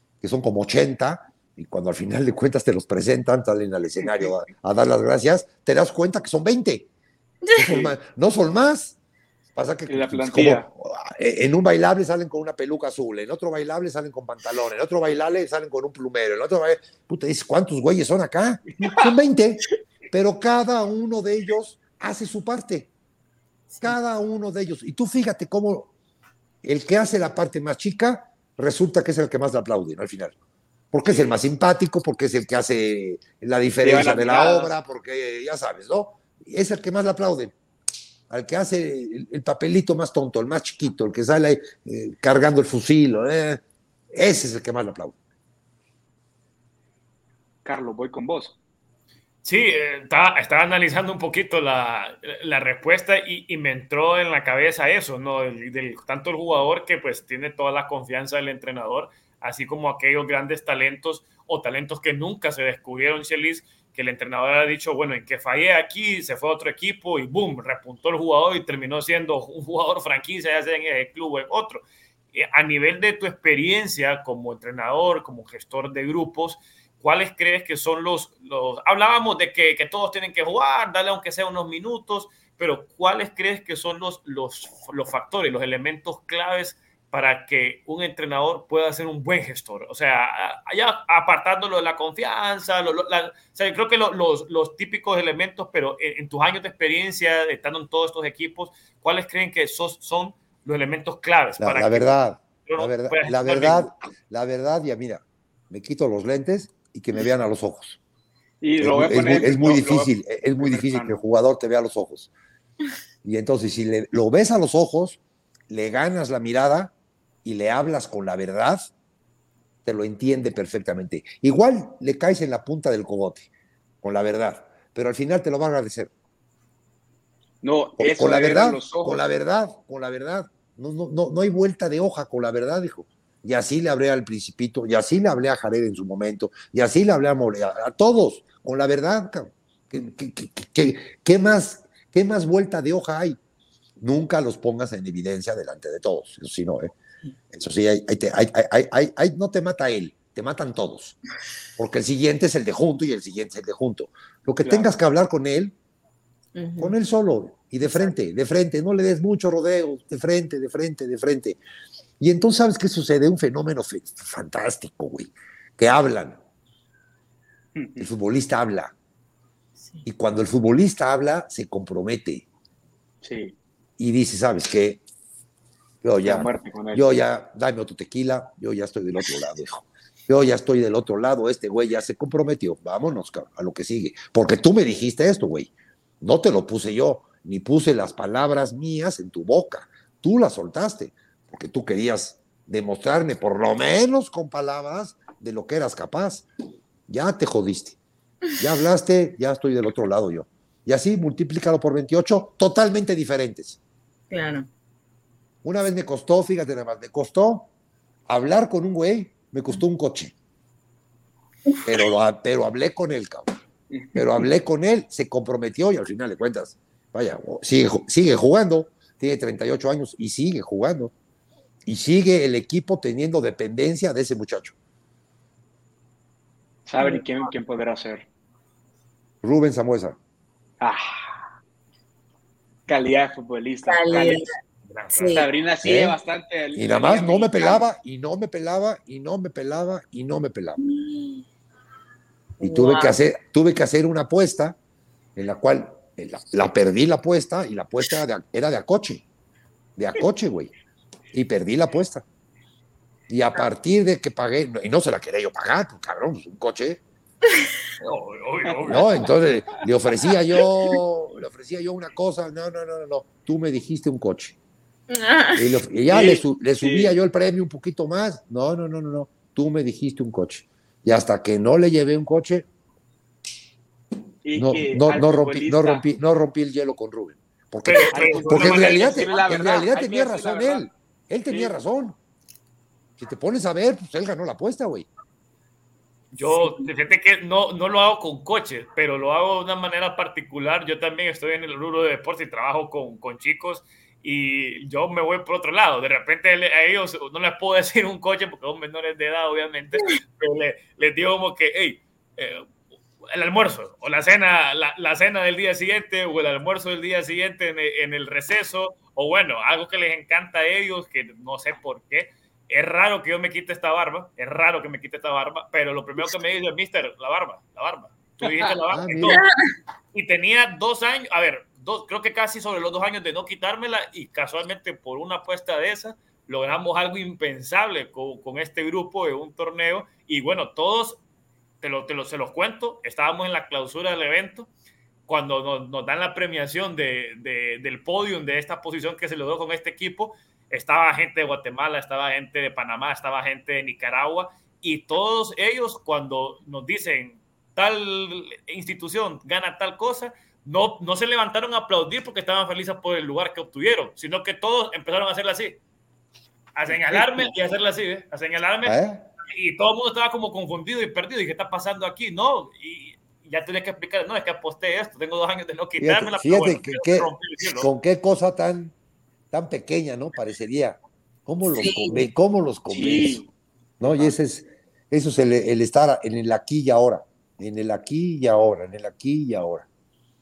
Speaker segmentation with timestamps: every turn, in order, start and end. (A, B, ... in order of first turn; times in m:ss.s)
0:00.2-0:06.9 A
0:04.0-0:04.3 B
0:07.5-0:09.0 A
0:07.6-0:07.9 B
0:09.5-0:22.9 A
0:09.9-0:10.6 B
0:23.8-0:25.9 A
0:26.6-0:30.3 A
0:30.9-0:37.5 A
0:31.0-0:31.3 B
0:33.8-0:34.7 B
0:38.3-0:45.2 A
0:47.6-0:48.6 B
0:49.4-1:42.1 C
1:41.6-1:48.0 A
1:42.6-1:43.9 C
1:48.6-1:51.2 B
1:48.8-1:52.3 A
1:53.2-1:55.2 A
1:55.7-1:56.9 A
1:57.4-1:58.9 A
1:59.8-2:03.5 A
2:04.0-2:06.1 A
2:07.6-2:09.2 B
2:08.0-2:23.4 A
2:24.0-2:26.9 A
2:27.5-2:31.2 A
2:31.8-2:35.7 A
2:34.6-2:34.9 B
2:36.5-2:36.9 D
2:36.8-2:41.6 A
2:42.2-2:46.4 A
2:47.7-2:48.1 B
2:48.0-2:48.9 A
2:50.0-2:52.4 A
2:53.2-2:53.5 B
2:54.0-2:55.0 A
2:56.0-3:16.4 A
2:56.2-2:57.0 B
3:17.1-3:18.0 A
3:18.6-3:23.8 A
3:24.3-3:24.7 D
3:25.6-3:27.7 A
3:28.3-3:30.3 A
3:31.8-3:33.5 A
3:33.9-3:34.4 B
3:34.1-3:41.1 A
3:41.8-3:44.7 A
3:46.8-3:48.2 B
3:49.4-3:50.2 A
3:50.8-3:51.4 B
3:52.9-3:54.4 B
3:53.9-3:54.5 D
3:54.9-3:55.5 C
3:55.1-3:55.5 D
3:55.3-3:57.9 B
3:55.8-3:56.2 A
3:56.7-4:00.8 A
4:00.8-4:01.4 D
4:02.6-4:04.8 A
4:02.6-4:03.1 D
4:05.4-4:09.2 A
4:10.0-4:10.7 A
4:11.3-4:12.2 A
4:13.3-4:17.0 A
4:18.0-4:19.3 C
4:18.6-4:19.0 B
4:18.9-4:24.6 A
4:25.1-4:25.8 D
4:25.6-4:32.6 A
4:26.1-4:27.1 B
4:34.4-4:36.0 B
4:34.6-4:42.2 A
4:37.8-4:39.5 C
4:38.1-4:40.8 B
4:43.2-4:45.1 A
4:46.3-5:02.6 C
4:46.5-4:46.8 D
5:03.3-5:19.4 C
5:18.9-5:19.4 A
5:19.2-5:19.5 D
5:20.1-5:31.2 C
5:31.8-5:34.7 C
5:35.3-5:55.8 C
5:56.7-6:07.9 C
5:57.1-5:57.5 A
5:58.8-5:59.3 A
6:06.0-6:08.9 A
6:09.5-6:13.4 A
6:11.7-6:12.2 D
6:12.9-6:13.5 B
6:14.0-6:19.9 A